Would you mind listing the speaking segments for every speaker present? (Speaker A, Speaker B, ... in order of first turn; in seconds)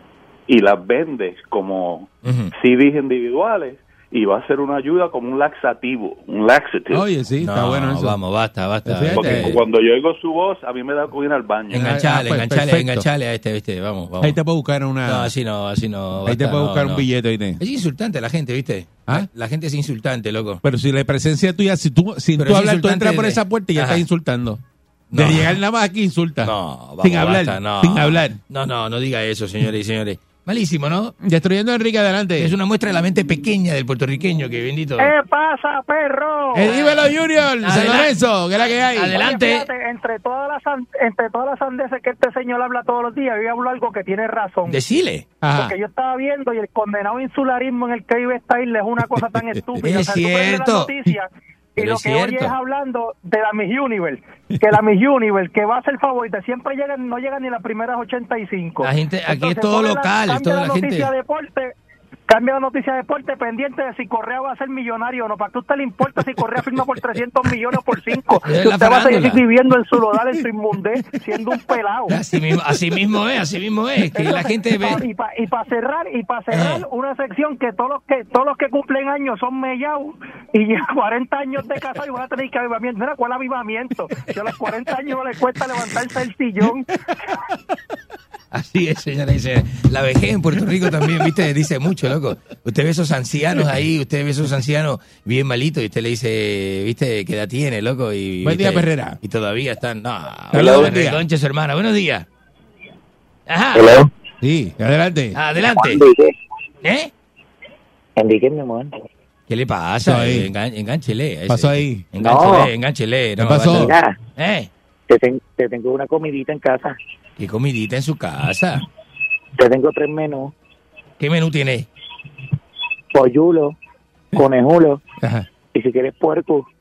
Speaker A: 0.5-7.0, 9.2-11.8
Speaker B: 2.2-2.5, 7.4-9.6, 11.7-14.4, 15.0-17.0, 17.6-20.6, 22.4-24.0, 25.1-25.6, 26.4-31.1, 32.4-35.1, 36.6-37.1, 37.6-38.1, 38.8-39.7, 44.7-45.4, 49.8-51.0, 51.8-52.5, 58.8-61.1, 68.4-69.4, 72.1-75.0, 76.5-76.8, 88.5-102.3, 103.5-104.0, 105.3-106.1, 106.8-107.1, 109.5-114.7, 117.4-118.8, 121.2-121.9
Speaker C: 6.9-8.2, 8.9-9.6, 11.8-13.1, 14.2-15.3, 16.2-17.6, 20.6-24.6, 25.1-28.4, 31.2-32.5, 36.5-39.2, 45.4-45.7, 98.4-99.2, 100.5-101.2, 104.4-105.4, 110.0-110.5, 111.5-112.1, 113.4-113.9
Speaker D: 35.0-36.7, 39.1-44.8, 45.5-61.7, 62.3-72.2, 74.1-86.8
Speaker E: 108.2-108.9, 112.2-112.7, 113.7-114.2, 115.1-117.0, 119.6-120.5, 123.1-123.8, 124.3-125.0, 125.7-126.6